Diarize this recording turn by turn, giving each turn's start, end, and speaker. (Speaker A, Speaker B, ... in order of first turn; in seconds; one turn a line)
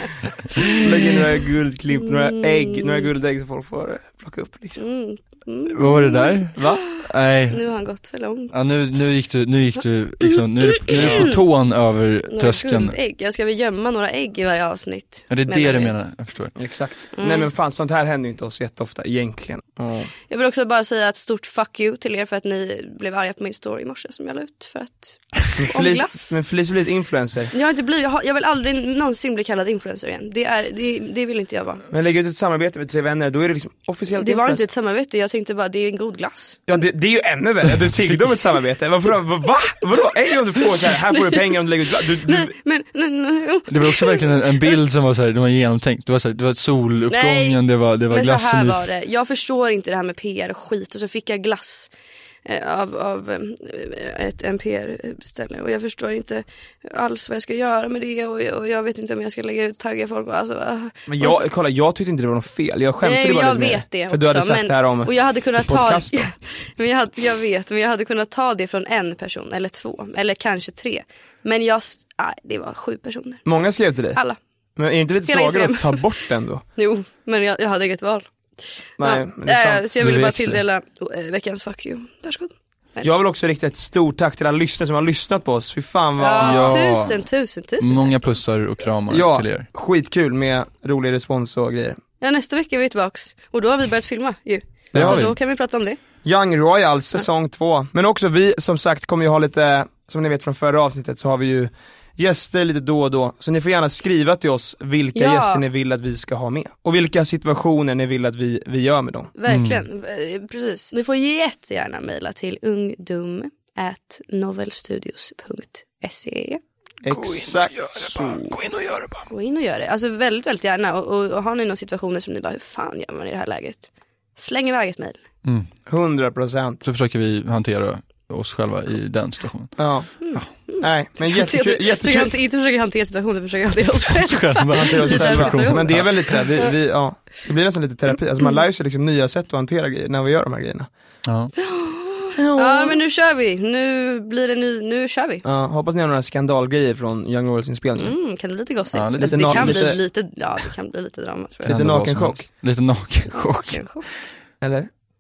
Speaker A: 0.8-4.8
Speaker B: 4.8-8.8
Speaker C: 5.7-7.7
Speaker A: 6.6-6.8
Speaker C: 8.5-13.0
Speaker B: 10.3-11.4
Speaker A: 10.9-11.3
Speaker B: 12.3-15.9
Speaker C: 15.3-16.6
Speaker A: 16.6-20.1
Speaker B: 17.2-17.5
Speaker B: 20.3-26.4
Speaker A: 25.6-27.5
Speaker B: 27.5-31.9
Speaker A: 31.9-34.6
Speaker B: 34.2-36.6
Speaker A: 36.7-42.5
Speaker B: 42.2-44.7
Speaker C: 43.7-48.8
Speaker B: 47.1-47.6
Speaker B: 48.1-51.9
Speaker B: 52.5-61.5
Speaker A: 61.1-66.3
Speaker B: 63.0-74.4
Speaker A: 73.5-74.2
Speaker A: 74.8-76.6
Speaker B: 75.3-76.1
Speaker B: 76.8-78.3
Speaker A: 79.0-80.1
Speaker B: 79.0-83.1
Speaker C: 80.0-80.6
Speaker A: 83.0-86.8
Speaker B: 86.2-88.2
Speaker C: 86.4-87.3
Speaker C: 87.8-89.7
Speaker A: 89.1-92.0
Speaker B: 92.2-96.0
Speaker A: 94.9-95.2
Speaker C: 95.0-95.4
Speaker A: 96.2-109.3
Speaker B: 105.2-105.6
Speaker B: 109.4-116.6
Speaker C: 109.5-109.8
Speaker A: 117.0-118.5
Speaker C: 117.1-119.3
Speaker B: 119.3-125.2
Speaker C: 125.5-125.7
Speaker A: 125.9-126.8
Speaker C: 126.8-130.5
Speaker A: 129.8-130.1
Speaker B: 130.2-136.7
Speaker A: 130.8-132.3
Speaker C: 134.1-136.4
Speaker A: 134.7-140.9
Speaker C: 141.3-141.5
Speaker B: 141.6-145.4
Speaker A: 142.4-143.0
Speaker A: 145.4-148.2
Speaker B: 148.0-151.8
Speaker C: 148.9-150.0
Speaker A: 149.2-150.0
Speaker A: 151.7-152.4
Speaker C: 151.7-154.0
Speaker B: 153.3-154.1
Speaker A: 154.6-154.9